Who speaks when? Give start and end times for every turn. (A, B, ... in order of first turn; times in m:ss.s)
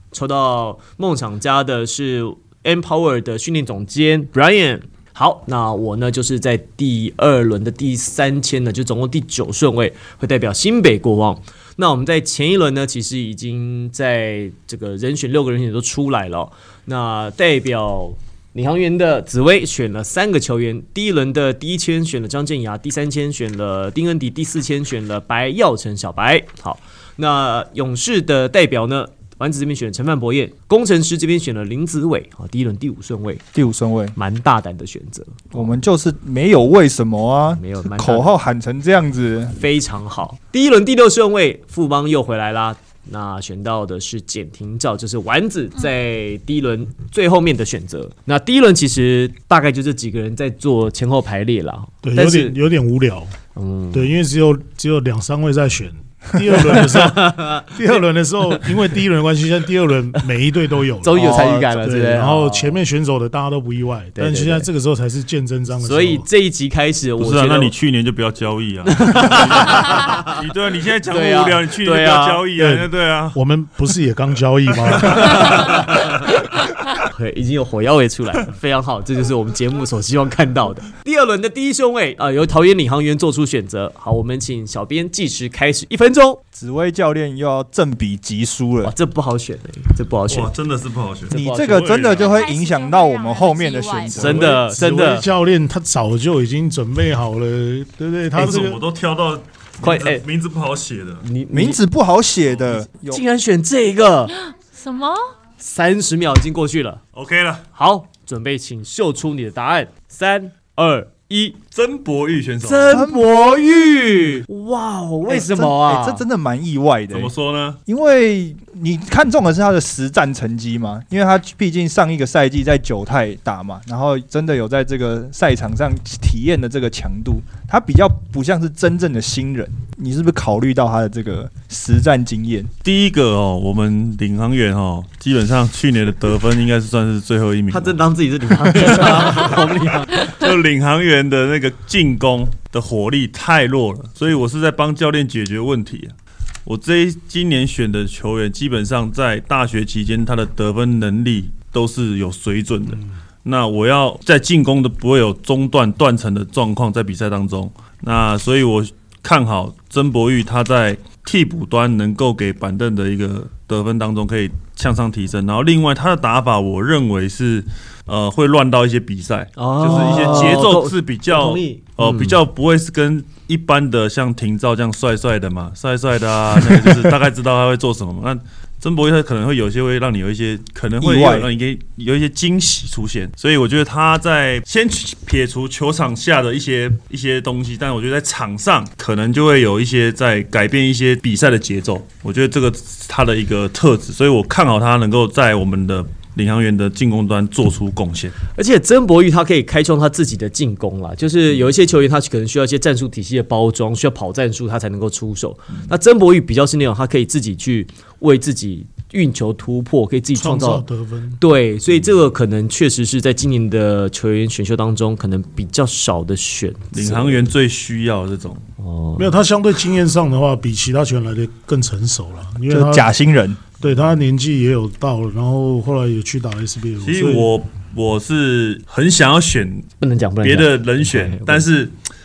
0:00.1-0:33.4 A
0:33.5-0:34.1 B
0:34.2-0:35.8 A
0:35.5-0:39.6 B
0:37.5-0:38.4 A
0:39.5-0:52.6 A
0:52.0-0:53.3 C
0:53.5-0:54.1 A
0:53.9-1:06.2 C
0:56.6-0:57.8 A
1:01.0-1:02.8 A
1:04.2-1:04.7 A
1:05.8-1:07.7 A
1:07.2-1:13.4 D
1:08.8-1:10.4 A
1:11.1-1:12.4 A
1:12.6-1:15.6 C
1:15.1-1:16.3 A
1:17.0-1:26.4 A
1:26.5-1:28.9 B
1:28.8-1:30.5 A
1:30.3-1:32.4 D
1:31.3-1:32.2 A
1:31.3-1:34.6 B
1:32.0-1:34.5 E
1:34.2-1:35.2 A
1:34.7-1:38.8 C
1:38.3-1:41.2 D
1:39.8-1:40.2 A
1:41.2-1:41.8 A
1:41.5-1:43.2 B
1:42.6-1:44.3 A
1:44.4-1:45.3 E
1:45.6-1:47.0 A
1:47.1-1:47.6 D
1:47.7-1:51.6 A
1:51.7-1:53.0 D
1:52.6-1:56.2 A
1:52.9-1:53.2 B
1:55.3-1:57.3 B
1:57.1-1:57.8 D
1:57.9-2:12.7 B
2:12.8-2:18.0 D
2:17.7-2:20.3 A
2:18.7-2:26.1 D
2:26.6-3:18.4 D
2:49.6-2:52.4 A
3:01.0-3:01.5 B
3:18.5-3:30.8 A
3:30.3-3:31.4 C
3:31.4-3:37.4 A
3:36.9-3:38.6 D
3:38.8-3:39.3 A
3:39.2-3:43.1 C
3:42.7-3:43.6 B
3:43.8-3:47.5 C
3:47.0-3:49.9 D
3:50.0-3:51.7 A
3:50.4-3:51.9 D